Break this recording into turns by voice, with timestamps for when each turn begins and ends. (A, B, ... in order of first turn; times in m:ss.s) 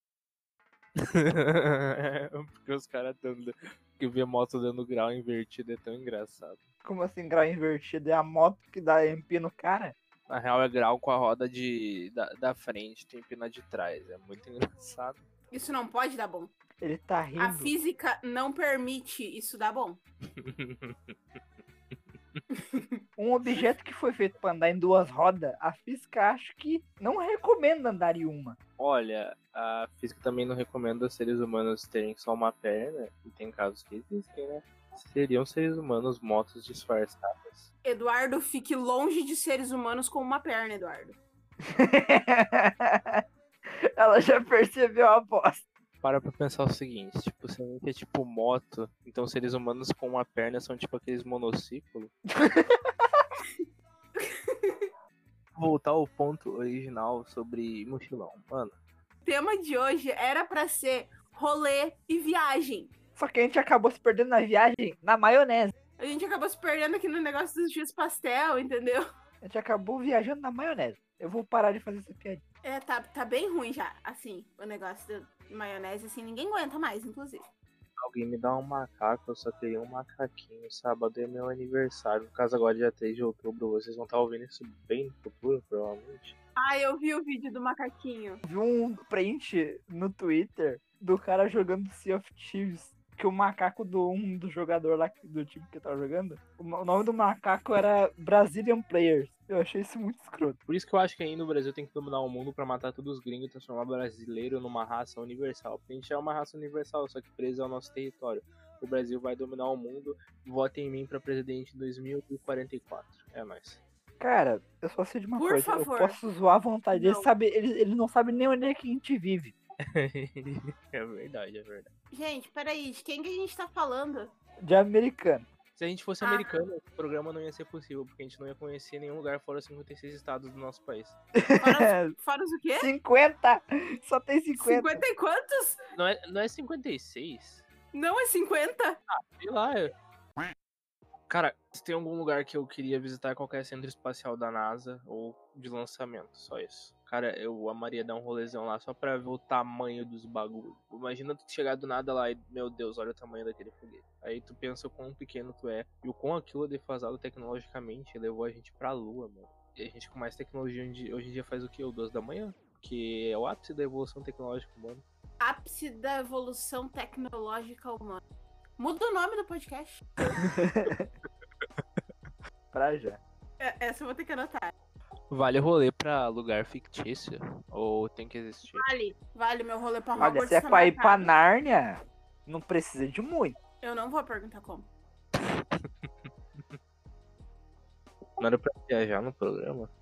0:01.0-0:06.6 A
0:06.8-0:09.9 B
0:10.3-0:15.2 A
0:15.5-0:16.5 C
0:16.8-0:17.7 B
0:17.4-0:20.0 C
0:20.3-0:22.4 A
0:22.5-0:23.0 C
0:23.2-0:28.6 B
0:28.8-0:37.7 A
0:37.8-0:41.2 C
0:41.6-0:43.2 B
0:44.0-0:45.6 B
0:46.0-0:52.1 A
0:52.4-0:53.2 B
0:54.2-0:54.9 C
0:55.6-0:58.8 A
0:59.2-1:02.9 C
1:03.2-1:05.7 B
1:06.0-1:09.0 C
1:09.4-1:12.4 B
1:12.6-1:17.4 C
1:18.0-1:26.3 A
1:26.6-1:28.4 C
1:28.4-1:40.6 B
1:40.7-1:53.8 A
1:54.2-1:59.5 B
1:55.4-1:56.2 C
1:56.9-1:57.3 C
1:59.9-2:01.9 A
2:02.1-2:04.3 C
2:04.6-2:05.5 B
2:05.8-2:11.2 A
2:06.2-2:06.6 C
2:11.4-2:12.1 B
2:11.6-2:12.9 C
2:12.8-2:15.0 B
2:14.6-2:15.8 C
2:15.9-2:17.6 A
2:17.9-2:19.0 C
2:19.1-2:19.9 A
2:21.3-2:45.0 A
2:45.4-2:48.2 C
2:48.8-2:50.4 C
2:50.6-2:51.1 B
2:52.7-2:53.2 B
2:53.6-2:54.7 C
2:55.3-2:58.8 A
2:58.7-3:01.3 C
3:00.2-3:03.6 B
3:03.8-3:04.9 C
3:05.4-3:06.8 A
3:08.4-3:09.9 A